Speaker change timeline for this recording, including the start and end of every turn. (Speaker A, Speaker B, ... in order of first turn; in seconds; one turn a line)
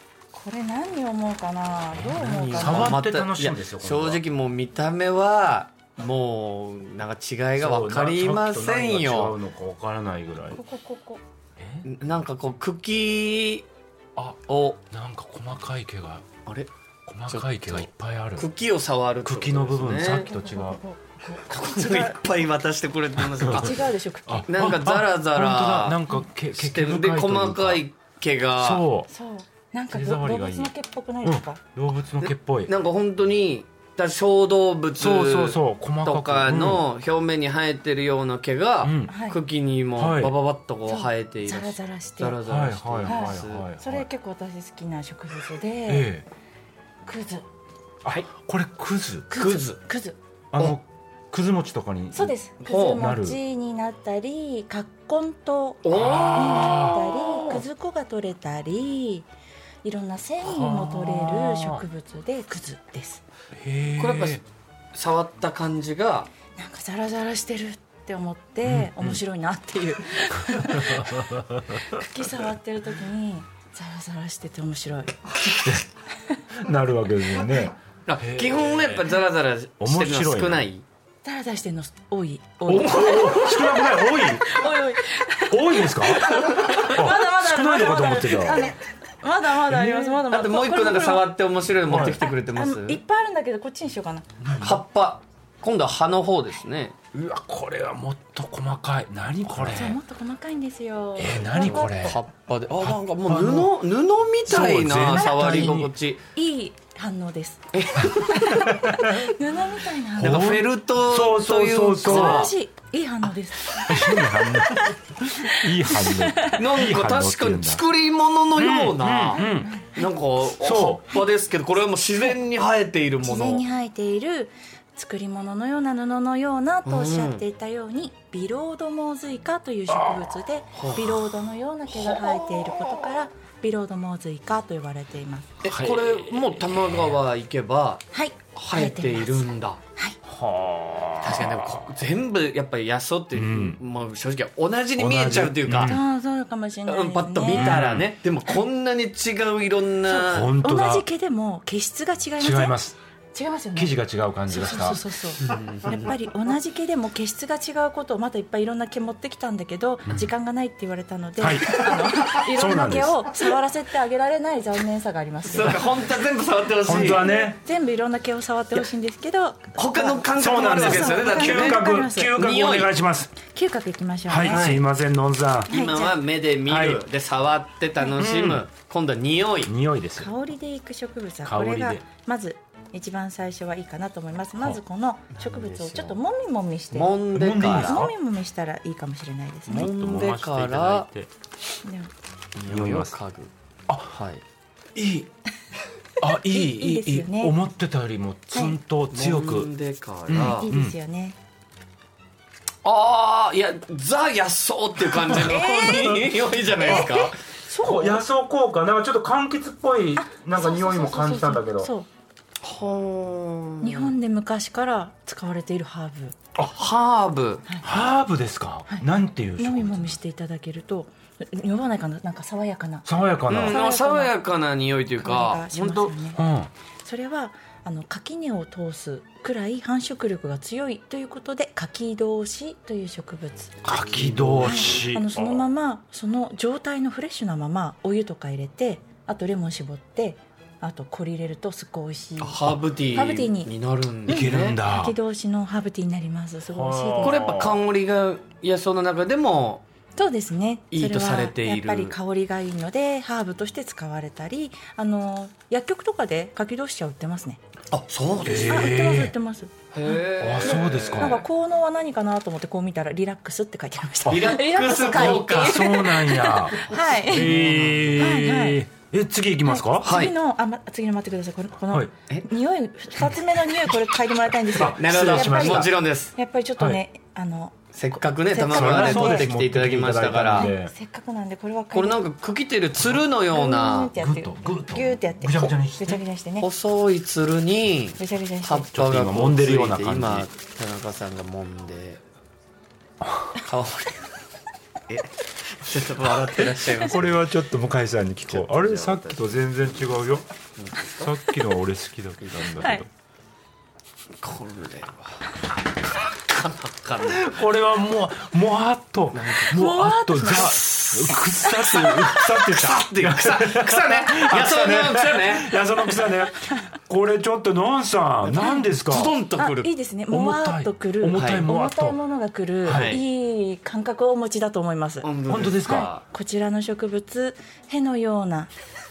Speaker A: 0.3-3.0
Speaker B: 1.9-4.2
Speaker C: 2.1-9.4
Speaker B: 7.6-10.6
Speaker A: 10.5-11.2
Speaker B: 11.6-11.9
Speaker C: 11.8-13.7
Speaker B: 14.2-16.4
Speaker C: 14.5-14.8
Speaker B: 17.1-18.5
Speaker C: 17.3-20.3
Speaker B: 19.2-20.8
Speaker A: 20.2-22.2
Speaker C: 21.5-23.9
Speaker B: 23.4-23.8
Speaker A: 23.5-24.5
Speaker B: 24.3-27.8
Speaker C: 24.5-26.0
Speaker C: 26.5-28.9
Speaker B: 28.6-29.1
Speaker A: 29.1-31.6
Speaker B: 29.9-30.7
Speaker B: 31.2-32.7
Speaker C: 32.2-43.6
Speaker B: 35.0-36.9
Speaker B: 38.8-39.1
Speaker A: 39.1-39.4
Speaker B: 40.0-40.3
Speaker A: 40.9-42.4
Speaker B: 42.4-44.1
Speaker A: 43.0-46.1
Speaker B: 45.9-46.2
Speaker A: 47.0-47.4
Speaker B: 48.0-49.3
Speaker A: 49.3-50.1
Speaker C: 49.4-49.8
Speaker B: 50.5-52.4
Speaker A: 52.1-59.3
Speaker C: 52.6-53.0
Speaker B: 52.9-53.4
Speaker C: 55.8-57.6
Speaker B: 55.9-57.1
Speaker A: 59.8-63.2
Speaker B: 60.4-61.8
Speaker B: 63.5-64.4
Speaker C: 64.0-66.3
Speaker A: 66.5-71.3
Speaker B: 68.6-69.2
Speaker B: 70.5-71.9
Speaker A: 71.8-75.3
Speaker B: 75.5-75.8
Speaker B: 76.5-79.1
Speaker C: 78.0-80.8
Speaker B: 79.8-80.7
Speaker A: 81.2-91.3
Speaker B: 82.7-84.6
Speaker B: 85.5-88.7
Speaker C: 86.5-86.9
Speaker B: 89.7-90.2
Speaker C: 90.2-93.0
Speaker B: 91.9-92.2
Speaker A: 92.0-94.3
Speaker B: 94.4-94.8
Speaker C: 94.6-97.0
Speaker B: 97.1-100.0
Speaker C: 99.5-99.9
Speaker A: 99.7-102.2
Speaker B: 101.2-102.2
Speaker C: 101.5-106.2
Speaker B: 102.8-103.7
Speaker B: 104.5-105.9
Speaker A: 105.2-105.8
Speaker A: 106.3-110.5
Speaker C: 107.7-108.7
Speaker B: 108.7-109.2
Speaker B: 110.2-112.5
Speaker C: 110.2-112.5
Speaker A: 112.0-114.9
Speaker B: 113.8-117.8
Speaker A: 115.5-116.6
Speaker C: 116.5-123.6
Speaker B: 118.5-119.7
Speaker A: 119.3-120.1
Speaker B: 120.5-121.1
Speaker A: 123.2-135.6
Speaker C: 126.8-127.4
Speaker B: 129.9-130.2
Speaker C: 130.8-131.1
Speaker C: 132.2-132.8
Speaker C: 135.6-138.0
Speaker B: 135.6-137.2
Speaker A: 138.1-140.2
Speaker C: 138.6-139.8
Speaker B: 140.2-141.9
Speaker C: 141.2-146.0
Speaker B: 143.3-143.8
Speaker B: 145.0-146.0
Speaker A: 145.8-147.8
Speaker C: 146.9-150.5
Speaker B: 147.5-148.1
Speaker A: 150.1-152.8
Speaker B: 150.2-151.1
Speaker B: 152.4-153.0
Speaker A: 153.3-153.9
Speaker B: 153.7-155.0
Speaker A: 154.5-166.1
Speaker C: 155.4-156.1
Speaker B: 161.4-163.3
Speaker C: 165.4-167.2
Speaker B: 166.8-167.6
Speaker A: 166.9-172.3
Speaker C: 169.8-172.9
Speaker B: 170.4-173.4
Speaker A: 173.4-174.7
Speaker B: 174.3-175.7
Speaker C: 174.5-174.8
Speaker C: 175.7-179.7
Speaker A: 175.7-176.2
Speaker B: 176.7-177.0
Speaker B: 178.2-178.6
Speaker B: 179.6-180.3
Speaker A: 180.2-189.9
Speaker B: 181.4-182.0
Speaker C: 185.4-186.2
Speaker C: 186.9-188.1
Speaker B: 187.3-188.1
Speaker B: 189.7-191.3
Speaker C: 189.7-191.1
Speaker A: 191.8-192.1
Speaker C: 192.6-193.5
Speaker B: 192.7-193.1
Speaker B: 193.9-194.2
Speaker C: 194.1-194.4
Speaker B: 194.9-195.3
Speaker B: 196.2-199.7
Speaker A: 196.4-197.6
Speaker A: 198.5-198.8
Speaker C: 199.1-200.7
Speaker B: 200.3-200.9
Speaker A: 200.4-201.4
Speaker C: 202.8-207.4
Speaker A: 205.4-206.3
Speaker A: 206.8-208.2
Speaker B: 206.8-207.2
Speaker B: 207.8-211.9
Speaker A: 210.2-212.1
Speaker C: 212.6-214.1
Speaker A: 213.8-216.4
Speaker C: 216.6-217.6
Speaker B: 217.8-220.2
Speaker A: 219.6-223.1
Speaker B: 223.1-223.8
Speaker C: 223.5-226.2
Speaker A: 223.6-224.3
Speaker A: 225.2-226.4
Speaker B: 226.3-226.7
Speaker A: 227.0-233.8
Speaker B: 233.8-235.6
Speaker C: 233.9-235.0
Speaker A: 234.6-243.7
Speaker C: 242.4-244.8
Speaker B: 244.3-245.2
Speaker A: 244.3-247.5
Speaker B: 246.7-247.8
Speaker C: 247.2-249.8
Speaker A: 250.2-257.6
Speaker C: 250.9-252.1
Speaker C: 257.9-258.9
Speaker B: 258.4-259.3
Speaker A: 258.4-259.7
Speaker C: 259.9-261.4
Speaker B: 260.4-261.4
Speaker A: 260.6-267.6
Speaker B: 264.2-270.1
Speaker C: 264.3-268.3
Speaker A: 268.1-268.9
Speaker A: 269.6-279.5
Speaker C: 270.0-270.3
Speaker B: 274.6-275.9
Speaker C: 274.8-276.3
Speaker C: 277.9-280.7
Speaker B: 278.7-280.9
Speaker A: 280.5-282.2
Speaker C: 281.9-284.1
Speaker A: 283.5-286.7
Speaker B: 284.1-286.2
Speaker C: 286.6-292.2
Speaker A: 288.2-288.9
Speaker B: 288.9-290.5
Speaker B: 293.2-293.5
Speaker C: 293.6-294.3
Speaker C: 295.1-297.4
Speaker B: 297.0-300.4
Speaker C: 298.5-299.4
Speaker C: 300.8-301.3
Speaker B: 301.2-303.1
Speaker C: 304.4-305.4
Speaker C: 306.1-307.5
Speaker B: 307.3-319.4
Speaker C: 309.3-309.9
Speaker A: 309.7-310.8
Speaker C: 310.4-316.2
Speaker C: 318.4-319.9
Speaker A: 318.6-318.9
Speaker A: 319.6-325.3
Speaker B: 320.3-322.2
Speaker C: 321.4-321.6
Speaker B: 322.8-323.2
Speaker C: 322.9-323.2
Speaker C: 325.2-326.2
Speaker B: 325.5-326.1
Speaker A: 325.9-328.7